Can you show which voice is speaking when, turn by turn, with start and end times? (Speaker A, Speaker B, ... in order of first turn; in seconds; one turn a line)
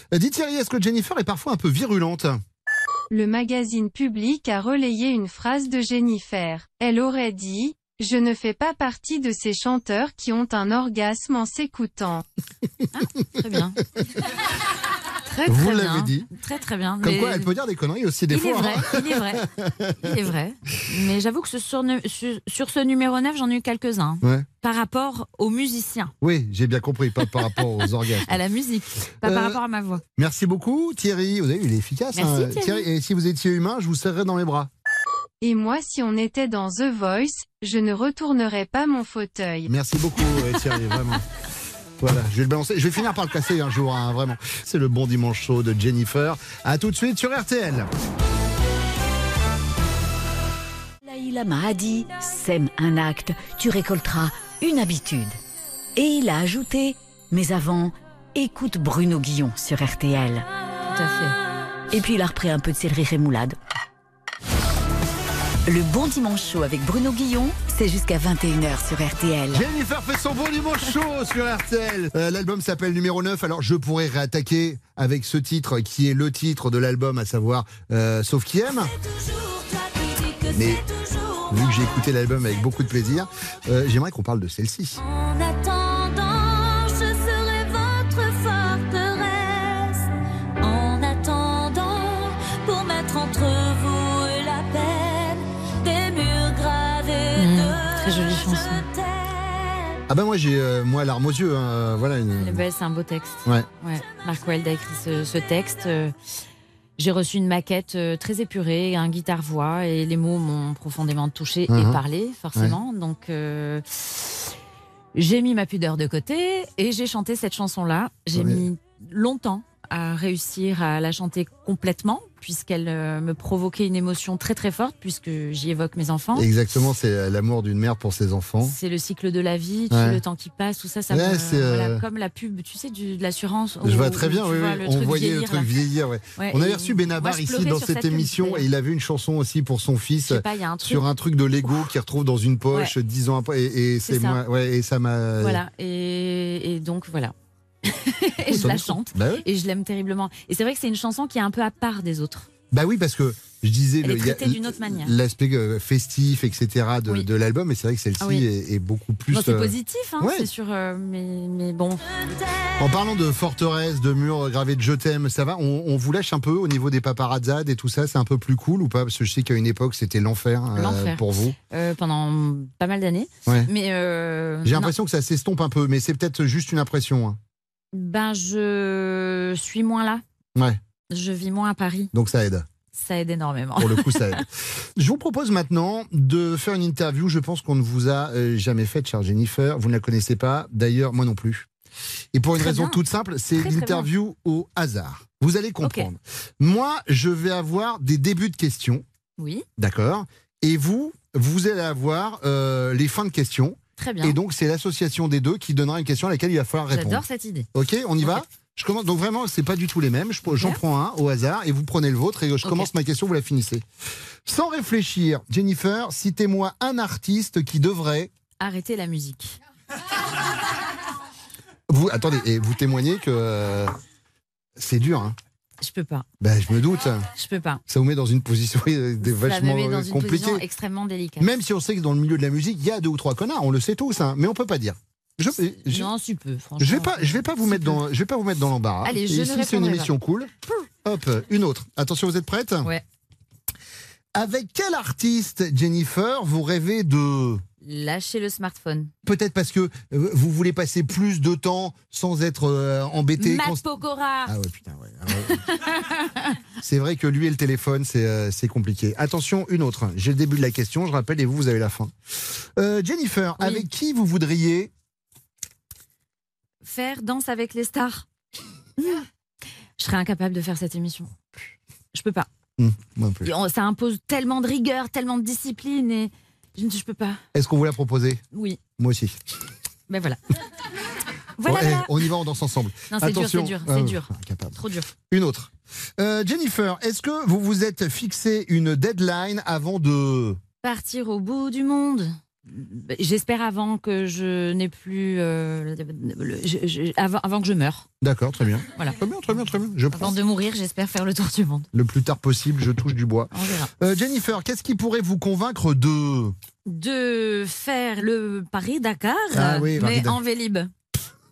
Speaker A: 0.1-2.4
Speaker B: 3.1-12.2
Speaker C: 12.9-13.8
Speaker C: 15.2-17.5
Speaker A: 15.5-16.3
Speaker A: 17.0-20.2
Speaker C: 18.3-19.5
Speaker C: 20.0-26.1
Speaker A: 26.2-28.4
Speaker C: 27.4-30.0
Speaker A: 29.2-29.6
Speaker A: 30.2-34.7
Speaker C: 32.1-32.9
Speaker B: 35.4-39.7
Speaker A: 39.7-41.2
Speaker A: 42.0-47.9
Speaker D: 51.0-55.4
Speaker D: 56.0-60.5
Speaker C: 60.9-61.4
Speaker D: 61.9-63.6
Speaker D: 65.7-69.7
Speaker A: 69.5-78.9
Speaker E: 78.7-81.9
Speaker A: 80.5-80.8
Speaker A: 81.5-85.0
Speaker E: 85.0-90.1
Speaker E: 90.6-100.0
Speaker C: 97.3-98.9
Speaker A: 100.1-102.6
Speaker C: 102.4-106.1
Speaker C: 107.0-114.5
Speaker A: 111.7-112.0
Speaker C: 115.2-126.5
Speaker A: 118.3-118.7
Speaker A: 126.3-128.8
Speaker C: 128.6-135.7
Speaker A: 129.9-130.2
Speaker A: 131.1-132.0
Speaker A: 133.8-145.6
Speaker C: 136.4-138.7
Speaker C: 140.2-141.1
Speaker C: 144.1-144.4
Speaker C: 145.4-152.5
Speaker A: 148.5-149.4
Speaker A: 152.7-160.5
Speaker C: 154.0-155.1
Speaker C: 158.2-158.5
Speaker C: 159.3-162.0
Speaker E: 162.3-162.7
Speaker A: 162.8-171.6
Speaker C: 170.8-174.9
Speaker A: 174.6-177.4
Speaker C: 177.9-180.2
Speaker A: 180.6-180.8
Speaker C: 181.1-182.1
Speaker A: 182.1-182.7
Speaker C: 182.9-184.4
Speaker A: 183.8-191.7
Speaker A: 192.3-199.1
Speaker C: 192.6-193.0
Speaker C: 193.6-194.1
Speaker C: 195.8-196.1
Speaker C: 199.4-199.7
Speaker A: 199.8-213.8
Speaker C: 204.0-204.4
Speaker C: 206.9-207.7
Speaker C: 210.5-210.8
Speaker C: 212.6-212.9
Speaker A: 214.5-218.3
Speaker C: 218.6-219.6
Speaker A: 221.9-223.9
Speaker A: 224.8-225.4
Speaker C: 225.8-226.3
Speaker A: 226.4-227.3
Speaker C: 227.4-227.8
Speaker A: 227.9-230.7
Speaker C: 229.2-231.5
Speaker A: 231.4-236.1
Speaker C: 235.8-238.0
Speaker A: 236.8-242.9
Speaker C: 239.0-240.1
Speaker A: 244.3-247.6
Speaker C: 247.8-249.1
Speaker A: 249.2-253.8
Speaker C: 253.4-254.5
Speaker A: 254.5-255.6
Speaker C: 255.4-256.5
Speaker A: 256.8-264.9
Speaker C: 263.6-263.9
Speaker C: 266.8-268.3
Speaker C: 269.0-269.2
Speaker C: 270.0-271.3
Speaker C: 272.1-272.5
Speaker A: 272.8-273.5
Speaker C: 273.4-277.4
Speaker A: 277.5-278.4
Speaker C: 278.5-278.8
Speaker A: 279.0-279.4
Speaker C: 280.1-280.4
Speaker C: 281.6-282.2
Speaker A: 281.6-290.6
Speaker C: 283.1-285.1
Speaker C: 290.8-298.1
Speaker A: 298.2-300.4
Speaker C: 300.1-301.9
Speaker A: 301.9-306.6
Speaker C: 303.5-303.9
Speaker C: 306.9-310.9
Speaker A: 309.5-310.4